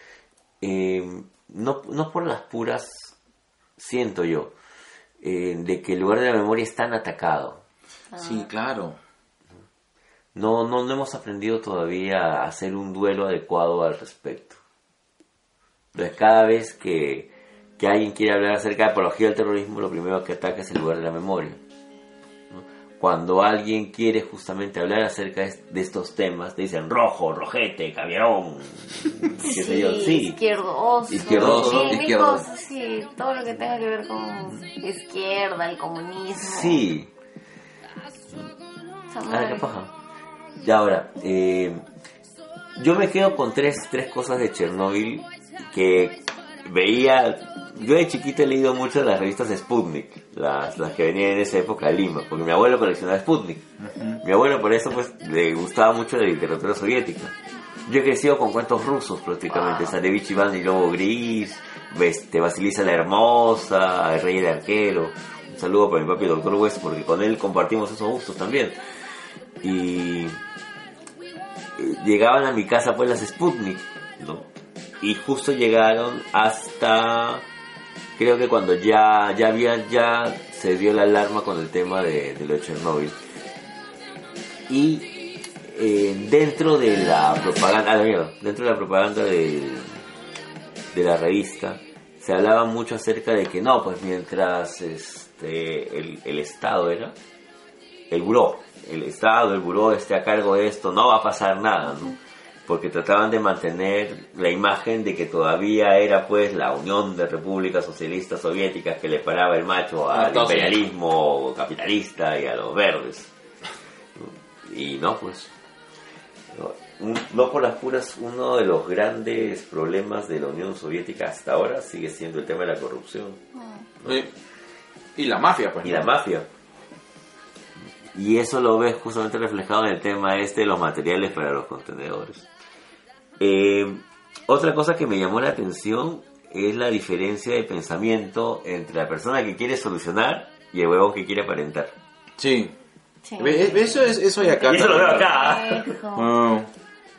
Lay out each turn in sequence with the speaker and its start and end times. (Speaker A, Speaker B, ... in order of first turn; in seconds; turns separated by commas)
Speaker A: 0.6-3.1, Speaker A: 3.8-4.5, Speaker A: 5.2-7.6, Speaker B: 8.1-8.5, Speaker C: 8.2-9.0, Speaker A: 10.3-14.6, Speaker A: 16.0-21.6, Speaker A: 22.5-30.4, Speaker B: 29.4-36.9, Speaker A: 31.1-32.0, Speaker C: 31.1-32.5, Speaker A: 36.4-37.1, Speaker B: 39.1-39.7, Speaker A: 39.3-39.9, Speaker A: 40.6-41.8, Speaker A: 42.8-53.6, Speaker C: 53.8-54.2, Speaker A: 54.2-57.3, Speaker A: 57.9-68.8, Speaker B: 59.6-59.9, Speaker A: 69.6-70.4, Speaker A: 71.8-74.5, Speaker A: 75.0-77.4, Speaker A: 78.2-83.2, Speaker A: 84.7-85.1, Speaker A: 85.6-90.0, Speaker A: 90.9-97.2, Speaker A: 98.1-113.3, Speaker C: 110.1-110.8, Speaker A: 114.2-115.5, Speaker A: 116.5-123.4, Speaker B: 123.5-123.9, Speaker C: 124.0-124.3, Speaker C: 125.2-126.1, Speaker A: 125.8-126.5, Speaker A: 128.2-132.5, Speaker A: 133.4-141.9, Speaker C: 142.4-142.8, Speaker B: 143.2-146.3, Speaker C: 143.4-145.3, Speaker A: 144.7-145.9, Speaker C: 146.2-146.7